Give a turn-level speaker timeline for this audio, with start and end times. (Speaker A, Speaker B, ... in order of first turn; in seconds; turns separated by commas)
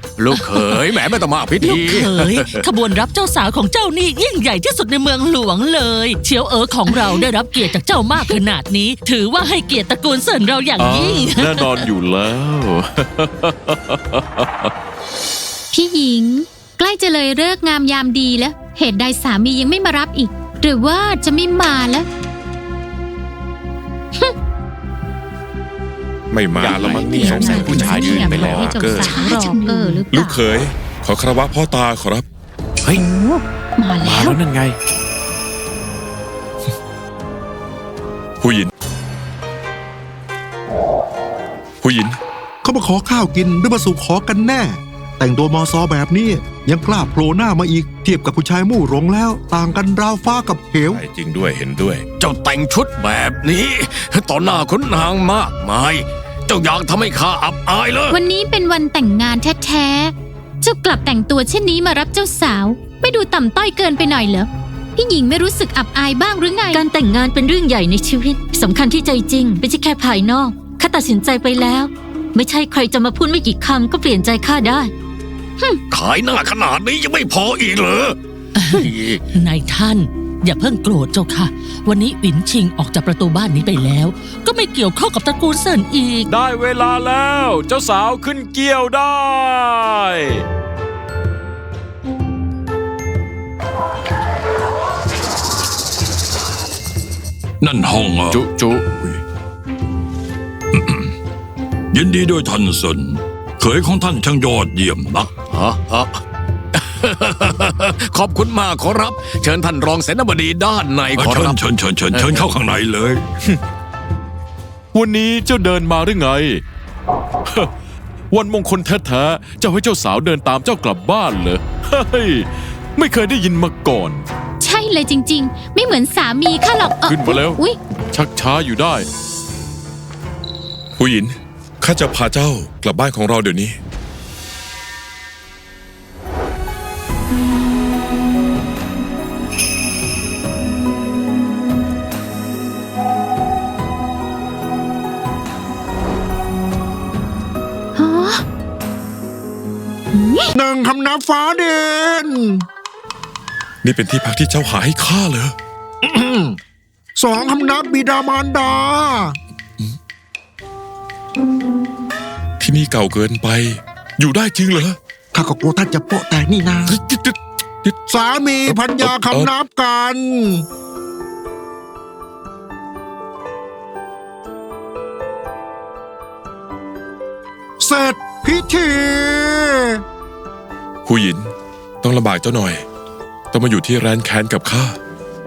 Speaker A: 0.2-2.6, Speaker B: 0.4-0.8, Speaker B: 1.6-11.8, Speaker C: 10.8-14.7, Speaker D: 15.7-22.1, Speaker E: 26.3-29.1, Speaker F: 26.6-30.0, Speaker D: 26.8-30.4, Speaker E: 30.1-32.2, Speaker D: 32.9-34.4, Speaker F: 34.0-34.8, Speaker E: 38.4-38.7, Speaker E: 41.8-42.2, Speaker G: 42.6-51.0, Speaker E: 50.9-52.0, Speaker A: 52.2-58.2, Speaker D: 58.1-66.8, Speaker H: 66.7-74.9, Speaker A: 75.9-78.2, Speaker B: 78.5-86.3, Speaker A: 78.7-79.2, Speaker C: 86.3-90.4, Speaker I: 97.6-98.4, Speaker C: 98.3-99.2, Speaker I: 100.7-101.1, Speaker I: 101.9-105.3, Speaker A: 105.5-106.2, Speaker A: 106.7-111.6, Speaker I: 111.2-113.2, Speaker A: 112.1-112.4, Speaker C: 114.9-116.6, Speaker C: 118.3-124.2, Speaker D: 124.6-127.8, Speaker C: 127.0-127.6, Speaker C: 128.1-129.0, Speaker E: 131.0-133.8, Speaker D: 147.9-148.4, Speaker D: 150.1-150.5, Speaker G: 150.5-152.6, Speaker E: 153.8-155.5, Speaker G: 156.0-156.6, Speaker G: 157.2-159.4, Speaker E: 162.6-165.0, Speaker G: 165.3-167.0, Speaker E: 166.9-168.0, Speaker G: 168.1-170.6, Speaker E: 168.7-169.5, Speaker G: 177.8-180.0, Speaker E: 181.0-181.5, Speaker E: 182.0-182.8, Speaker E: 183.5-185.0